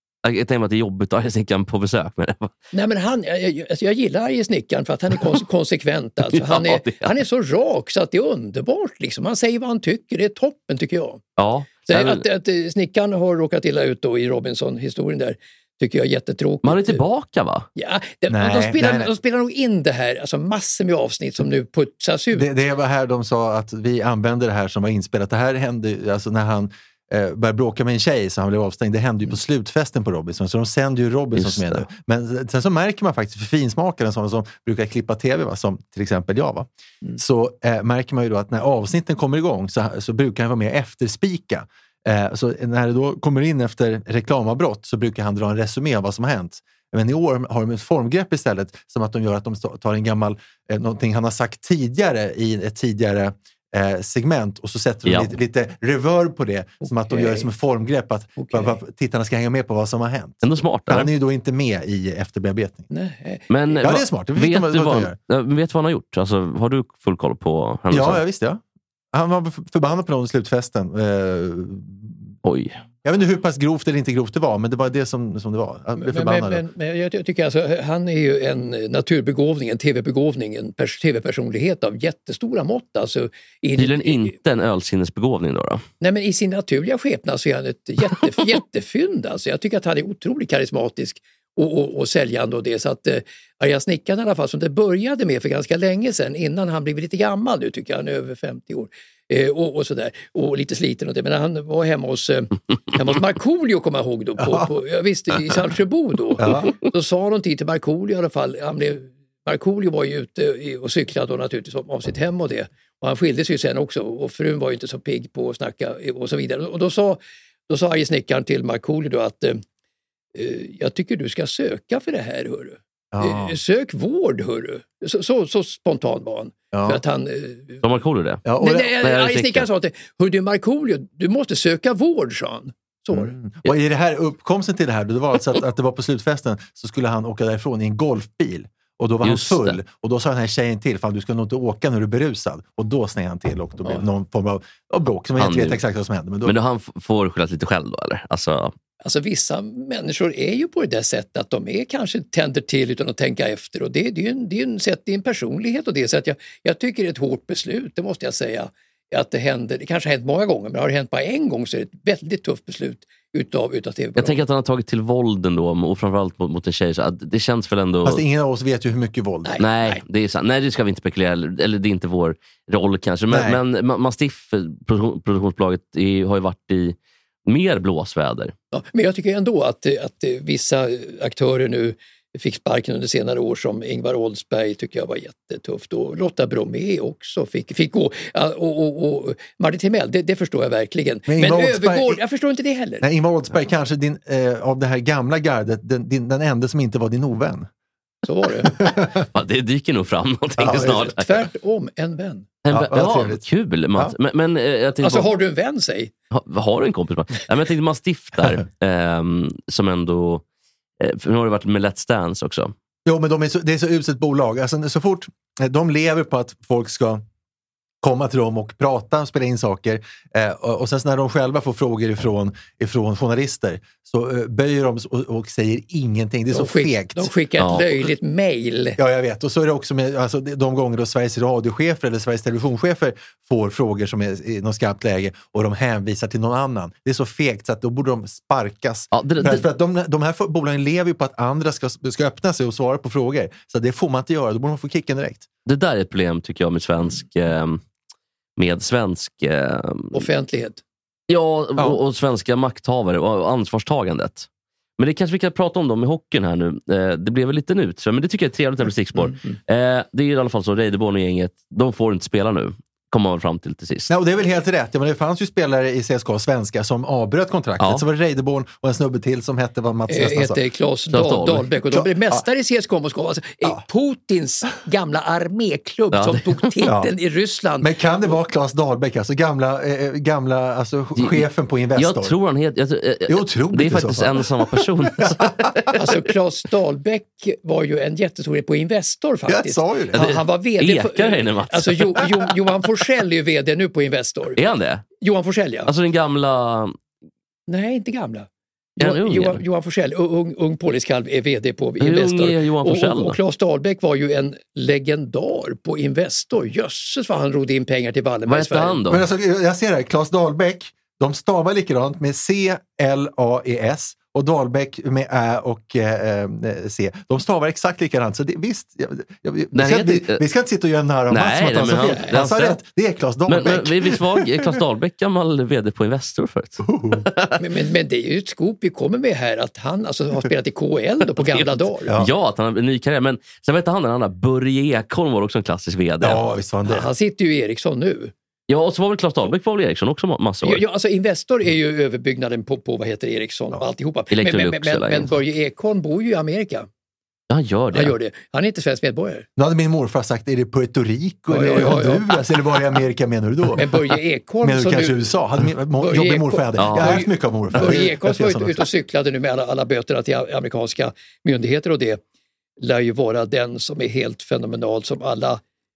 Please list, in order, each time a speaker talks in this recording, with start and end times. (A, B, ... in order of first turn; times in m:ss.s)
0:00.2-0:02.5 A
0:02.7-0:11.2 B
0:06.3-0:07.1 A
0:11.4-0:12.2 A
0:11.9-0:17.0 B
0:16.6-0:17.6 A
0:17.8-0:22.5 B
0:18.3-0:19.1 C
0:22.3-1:02.9 C
0:31.4-0:31.8 A
0:55.0-0:55.3 A
0:56.8-0:57.5 B
0:58.4-0:58.8 B
1:00.4-1:01.1 A
1:02.9-1:03.4 B
1:03.5-1:08.2 A
1:03.8-1:05.2 C
1:07.9-1:08.6 C
1:09.1-1:12.3 C
1:12.4-1:12.8 A
1:13.0-1:16.6 C
1:16.0-1:24.3 B
1:23.8-1:25.8 A
1:26.0-1:59.6 B
1:44.4-1:44.7 C
1:46.4-1:46.7 C
2:00.3-2:07.8 B
2:03.1-2:03.6 C
2:06.7-2:07.0 C
2:07.8-2:08.4 A
2:08.4-2:08.9 C
2:08.6-2:13.3 B
2:09.0-2:09.7 A
2:13.1-2:26.6 C
2:19.2-2:19.8 A
2:25.4-2:25.8 A
2:26.4-2:28.7 A
2:29.0-2:44.4 B
2:44.2-2:48.2 A
2:48.0-2:49.6 C
2:49.4-2:50.0 B
2:49.6-2:58.5 A
2:53.3-2:53.6 C
2:58.7-3:13.0 B
3:11.3-3:12.2 C
3:13.0-3:17.7 C
3:18.2-3:18.8 B
3:18.6-3:19.2 C
3:19.3-3:21.5 A
3:20.6-3:21.1 C
3:20.6-3:22.5 B
3:22.6-3:25.3 A
3:22.7-3:23.4 C
3:25.0-3:26.1 B
3:26.3-3:30.4 A
3:31.0-3:32.7 A
3:33.0-3:37.2 C
3:38.0-3:47.3 C
3:46.5-3:49.0 B
3:47.6-3:48.0 A
3:49.0-4:05.5 C
3:59.1-3:59.6 A
4:05.6-4:07.8 A
4:08.6-4:10.3 A
4:10.1-4:10.8 B
4:11.3-4:24.1 A
4:24.1-4:30.6 C
4:30.1-4:38.3 B
4:31.1-4:31.7 A
4:31.9-4:32.4 C
4:36.1-4:36.7 A
4:36.8-4:37.1 C
4:37.8-4:42.4 C
4:41.2-4:41.4 A
4:42.0-4:46.0 A
4:43.3-4:45.7 C
4:45.9-4:54.6 B
4:49.5-4:50.2 C
4:50.1-4:52.4 A
4:54.6-4:55.0 A
4:55.2-4:55.9 B
4:55.8-4:57.0 A
4:57.7-5:09.0 B
4:59.0-4:59.6 A
5:02.0-5:03.4 A
5:08.5-5:09.2 A
5:09.1-5:24.8 C
5:19.7-5:20.4 A
5:21.3-5:22.8 A
5:22.0-5:22.4 B
5:23.5-5:27.6 A
5:26.8-5:27.2 C
5:27.6-5:32.1 B
5:31.4-5:36.4 A
5:36.2-5:37.1 C
5:36.9-5:38.3 B
5:38.7-5:40.8 A
5:40.6-5:46.9 B
5:44.3-5:45.3 A
5:47.5-5:48.1 A
5:47.9-5:49.5 B
5:49.6-5:53.8 C
5:51.5-5:52.4 B
5:53.8-5:55.2 B
5:54.6-5:58.8 C
5:56.0-6:02.2 B
5:56.8-5:57.2 A
6:02.8-6:05.6 B